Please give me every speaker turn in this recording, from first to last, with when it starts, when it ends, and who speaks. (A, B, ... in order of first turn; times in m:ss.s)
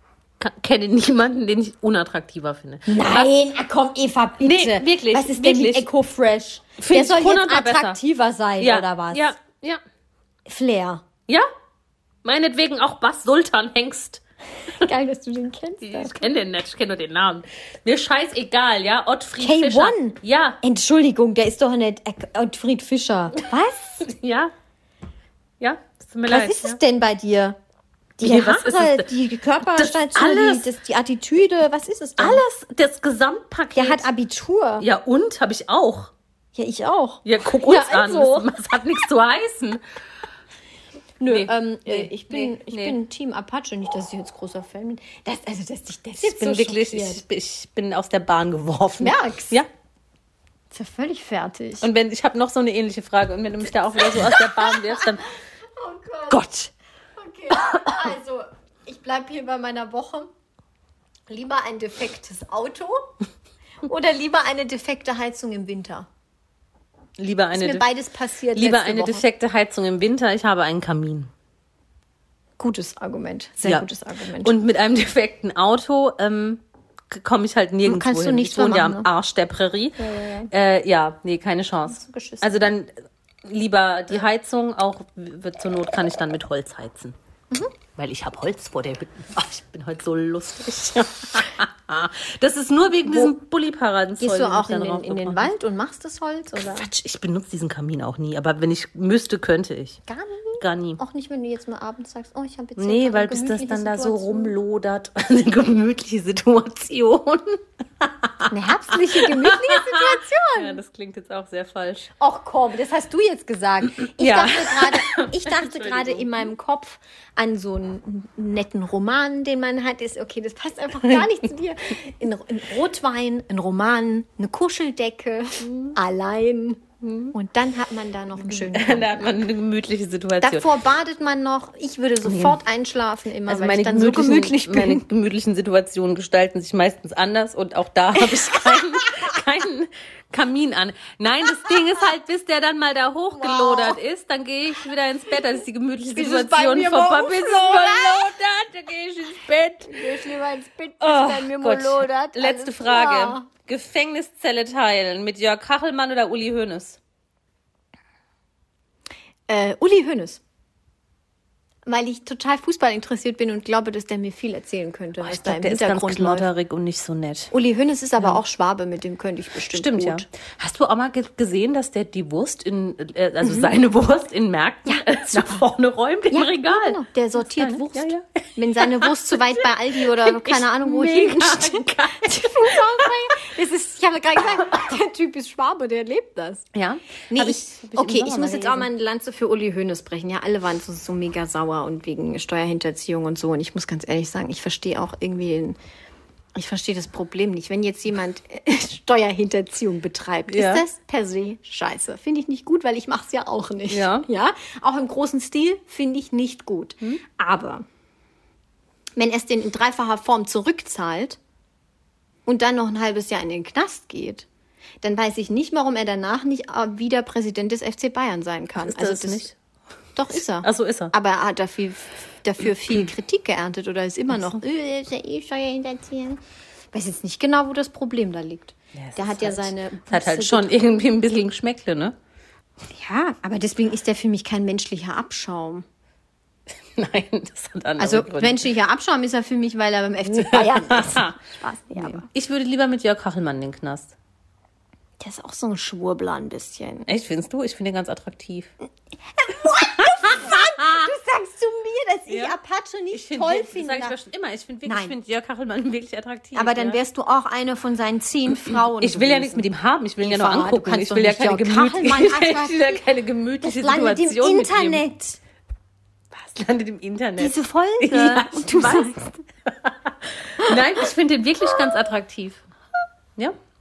0:00.4-0:03.3 A
0:02.9-0:09.3 B
0:04.4-0:05.9 A
0:06.8-0:08.0 A
0:08.6-0:09.8 A
0:10.5-0:11.0 B
0:12.2-0:14.2 A
0:14.8-0:16.2 B
0:15.8-0:20.6 A
0:19.4-0:24.0 B
0:24.0-0:24.5 A
0:25.6-0:26.8 A
0:26.2-0:27.6 B
0:28.2-0:32.4 B
0:28.2-0:29.1 A
0:29.7-0:30.7 A
0:32.2-0:34.1 A
0:33.7-0:34.8 B
0:34.8-0:36.1 A
0:36.5-0:38.5 B
0:37.2-0:39.8 A
0:41.2-0:47.2 B
0:41.2-0:43.0 A
0:46.2-0:49.7 A
0:49.0-0:49.6 B
0:50.7-0:51.9 B
0:51.8-0:55.3 A
0:54.1-0:56.4 B
0:56.3-0:56.7 A
0:57.2-1:00.3 B
0:57.5-0:58.0 A
1:01.3-1:03.0 B
1:03.8-1:06.1 B
1:07.2-1:07.9 A
1:07.5-1:09.2 B
1:08.5-1:11.3 A
1:12.6-1:14.6 B
1:13.6-1:13.9 A
1:14.4-1:22.9 A
1:17.8-1:19.1 B
1:20.0-1:20.5 B
1:21.9-1:22.7 B
1:23.4-1:27.2 A
1:27.9-1:35.5 A
1:34.2-1:36.9 B
1:36.6-1:40.0 A
1:40.1-1:44.6 B
1:40.6-1:41.0 A
1:42.8-1:52.1 A
1:48.5-1:50.8 B
1:52.2-2:09.4 B
1:54.0-1:56.5 A
2:05.6-2:06.0 A
2:07.0-2:07.3 A
2:08.4-2:10.8 A
2:10.4-2:15.0 B
2:12.2-2:12.6 A
2:13.4-2:30.3 A
2:18.4-2:19.3 B
2:23.4-2:24.0 B
2:26.0-2:28.3 B
2:29.9-2:33.5 B
2:31.0-2:37.0 A
2:39.5-2:40.4 B
2:41.9-2:46.5 B
2:45.2-2:47.5 A
2:47.5-2:50.3 B
2:49.7-3:03.4 A
2:54.8-2:55.6 B
2:56.3-3:06.7 B
3:06.7-3:08.9 A
3:07.3-3:15.8 B
3:16.5-3:27.8 B
3:20.5-3:20.8 A
3:23.9-3:24.3 A
3:29.2-3:31.4 B
3:32.4-3:34.4 B
3:35.0-3:39.5 B
3:38.8-3:39.6 A
3:40.1-3:46.4 B
3:40.4-3:41.1 A
3:44.3-3:44.6 A
3:46.9-3:50.7 B
3:48.9-3:52.2 A
3:52.9-3:55.8 B
3:56.9-3:58.7 A
3:58.0-4:02.3 B
4:00.3-4:01.3 A
4:02.0-4:04.1 A
4:05.2-4:07.1 B
4:07.0-4:08.7 A
4:09.4-4:14.2 B
4:09.7-4:11.0 A
4:12.3-4:12.6 A
4:13.1-4:17.0 A
4:14.8-4:15.1 B
4:16.5-4:19.7 B
4:18.7-4:25.0 A
4:20.2-4:23.0 B
4:23.6-4:25.4 B
4:26.3-4:32.6 A
4:27.4-4:29.3 B